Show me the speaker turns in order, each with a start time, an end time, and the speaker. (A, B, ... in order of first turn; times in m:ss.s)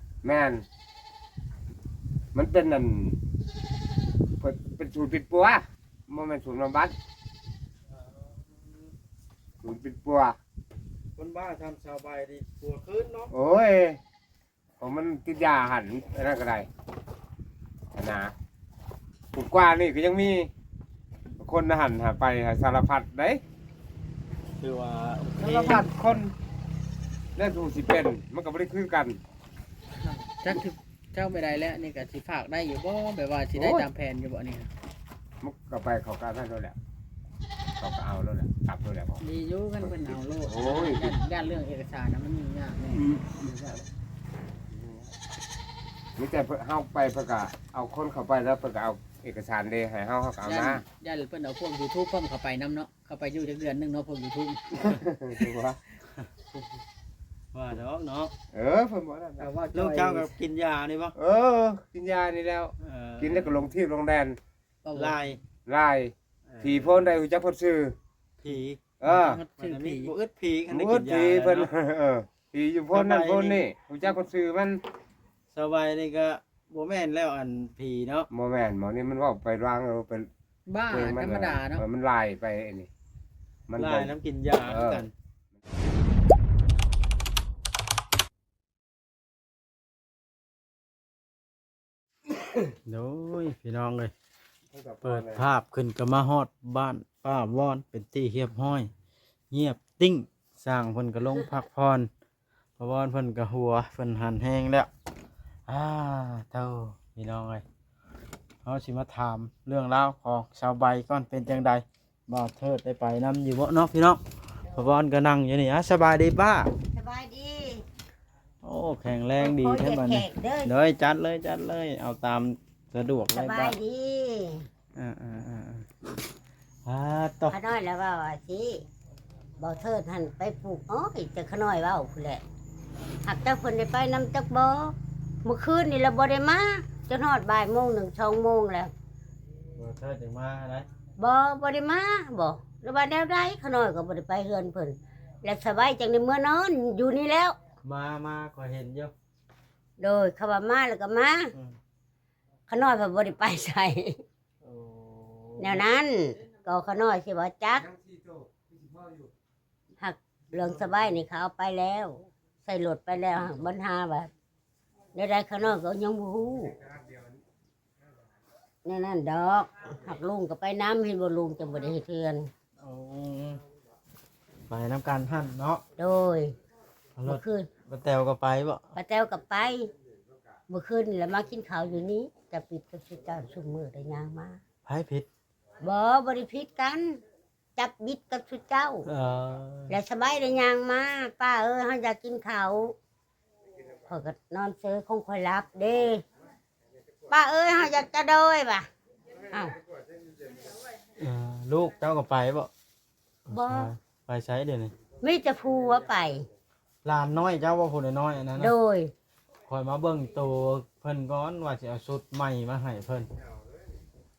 0:00.2-0:00.6 A
0:02.3-0:03.2 A
0:04.4-0:06.9 A
0:09.6-0:10.4 A
0:11.2-0:13.3 B
0:13.3-0:14.0 A
0:14.8-0:16.7 A
0:17.9-0:18.3 A
0:19.3-0:20.5 A
0:21.4-0:23.4 A
0:24.6-0:25.9 B
0:25.4-0:26.3 A
0:27.4-0:29.2 A
0:30.0-0:34.7 C
0:33.5-0:33.9 A
0:35.4-0:36.8 A
0:37.8-0:39.2 A
0:39.2-0:43.1 C
0:39.8-0:41.1 A
0:42.9-0:43.9 A
0:44.7-0:45.1 A
0:46.2-0:50.8 A
0:50.4-0:54.9 C
0:54.7-0:55.8 A
0:57.5-0:58.3 B
0:58.5-0:59.5 A
0:59.4-1:00.4 C
0:59.7-1:01.2 B
1:01.2-1:04.4 A
1:02.8-1:03.7 B
1:04.8-1:05.2 C
1:04.9-1:05.4 B
1:05.6-1:08.0 A
1:06.5-1:07.1 B
1:08.4-1:08.8 B
1:09.0-1:09.4 A
1:09.0-1:10.1 C
1:09.6-1:11.7 B
1:10.7-1:14.8 A
1:12.9-1:13.6 B
1:15.5-1:18.3 B
1:18.3-1:20.3 A
1:20.7-1:21.8 C
1:20.9-1:22.9 A
1:23.7-1:24.1 A
1:23.8-1:25.1 B
1:24.6-1:25.0 A
1:32.8-1:34.1 B
1:34.7-1:35.4 A
1:35.0-1:38.9 B
1:39.5-1:42.1 B
1:42.8-1:44.9 B
1:45.7-1:47.6 B
1:48.6-1:54.2 B
1:54.7-1:55.0 D
1:54.7-1:56.7 B
1:56.9-1:57.8 D
1:58.6-2:03.8 B
1:59.4-2:00.7 D
2:03.3-2:04.7 D
2:04.9-2:05.9 B
2:06.8-2:07.6 B
2:07.5-2:08.8 D
2:09.6-2:12.4 D
2:13.2-2:18.9 D
2:19.8-2:20.9 B
2:21.2-2:27.6 D
2:27.8-2:29.1 B
2:30.0-2:31.5 D
2:32.7-2:34.2 D
2:34.6-2:35.9 B
2:35.6-2:37.9 D
2:37.7-2:39.3 A
2:40.0-2:44.3 D
2:45.1-2:46.7 D
2:46.4-2:47.4 A
2:48.8-2:52.5 D
2:52.8-2:53.6 B
2:54.7-2:55.8 B
2:56.0-2:56.6 D
2:57.2-2:58.9 B
2:57.2-2:57.7 D
2:58.9-2:59.9 D
3:00.7-3:04.6 D
3:04.8-3:05.3 B
3:05.8-3:07.2 D
3:07.8-3:09.1 D
3:09.0-3:10.0 B
3:09.9-3:13.0 D
3:13.8-3:14.1 A
3:14.1-3:16.2 D
3:16.8-3:17.9 A
3:17.3-3:18.9 D
3:19.3-3:20.9 A
3:19.5-3:19.8 D
3:21.2-3:22.7 B
3:23.5-3:23.9 D
3:23.5-3:24.9 B
3:25.1-3:26.0 A
3:25.2-3:26.5 D
3:27.0-3:28.8 B
3:28.5-3:29.1 D
3:29.6-3:33.3 B
3:33.4-3:33.9 A